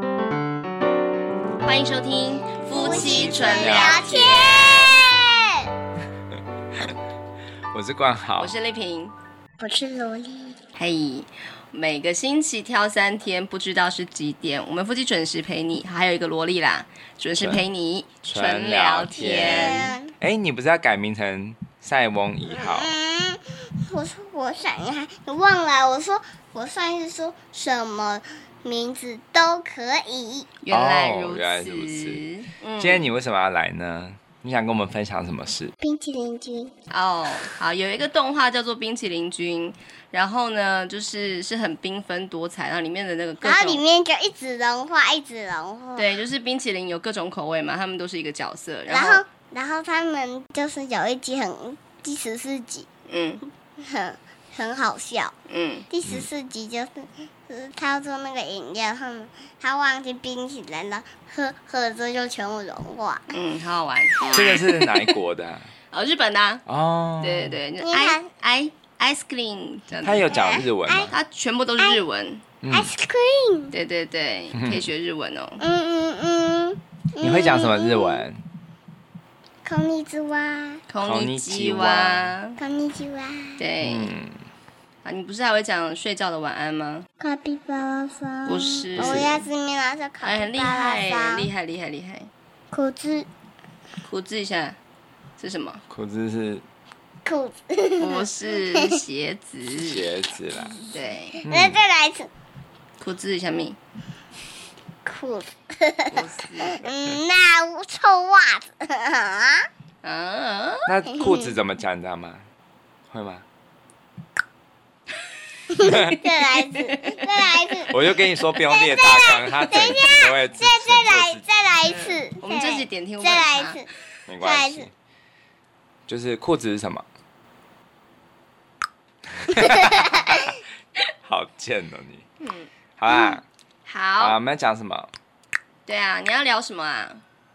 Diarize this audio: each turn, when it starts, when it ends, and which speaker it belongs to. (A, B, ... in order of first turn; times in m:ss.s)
0:01.6-0:04.9 A
0:02.7-0:04.7 B
0:02.8-0:05.7 C
0:07.7-0:08.6 B
0:08.4-0:09.1 A
0:09.6-0:10.6 C
0:10.8-0:20.0 A
0:17.4-0:17.6 B
0:18.2-0:22.9 B
0:19.2-0:20.1 C
0:22.5-0:30.5 C
0:30.6-0:33.1 A
0:30.7-0:32.2 B
0:32.8-0:35.8 B
0:35.8-0:36.7 C
0:36.9-0:43.8 A
0:43.4-0:46.1 C
0:46.0-0:49.2 A
0:48.9-0:52.9 C
0:53.1-0:53.4 A
0:53.8-0:55.3 C
0:55.5-0:55.9 A
0:55.9-1:03.4 C
1:03.3-1:04.5 A
1:04.2-1:05.1 C
1:04.3-1:05.7 B
1:05.9-1:06.6 A
1:06.7-1:07.6 B
1:07.2-1:10.3 A
1:07.8-1:08.3 C
1:10.0-1:11.1 B
1:10.3-1:11.1 C
1:11.1-1:12.4 A
1:12.6-1:12.9 B
1:12.7-1:13.7 C
1:13.7-1:15.6 A
1:14.5-1:14.8 B
1:15.6-1:18.3 C
1:17.2-1:18.4 B
1:19.6-1:20.8 C
1:20.9-1:22.6 A
1:21.0-1:22.3 B
1:22.6-1:23.6 C
1:23.6-1:24.1 A
1:23.8-1:24.4 B
1:25.0-1:27.1 A
1:27.2-1:31.5 C
1:28.5-1:29.4 A
1:29.0-1:29.4 B
1:30.2-1:32.3 A
1:32.7-1:33.3 C
1:34.0-1:34.8 A
1:35.4-1:35.8 A
1:35.9-1:36.6 B
1:37.2-1:39.0 C
1:38.0-1:40.1 A
1:39.7-1:40.8 B
1:40.8-1:42.3 C
1:40.9-1:41.4 A
1:41.4-1:41.8 B
1:43.0-1:43.8 A
1:45.1-1:49.7 C
1:46.1-1:46.9 A
1:50.0-1:50.9 A
1:50.9-1:52.5 B
1:51.1-1:51.6 C
1:53.1-1:53.4 B
1:55.7-1:57.9 C
1:55.8-1:56.2 B
1:57.0-1:57.2 A
1:57.9-2:01.4 B
1:58.7-2:03.9 C
2:01.9-2:03.8 A
2:04.3-2:04.9 B
2:04.4-2:04.9 C
2:06.1-2:07.0 B
2:09.4-2:10.6 B
2:09.6-2:10.6 C
2:11.2-2:12.2 B
2:12.4-2:12.7 A
2:13.0-2:13.4 B
2:13.1-2:13.4 C
2:13.8-2:14.4 A
2:14.2-2:15.1 B
2:15.9-2:17.2 A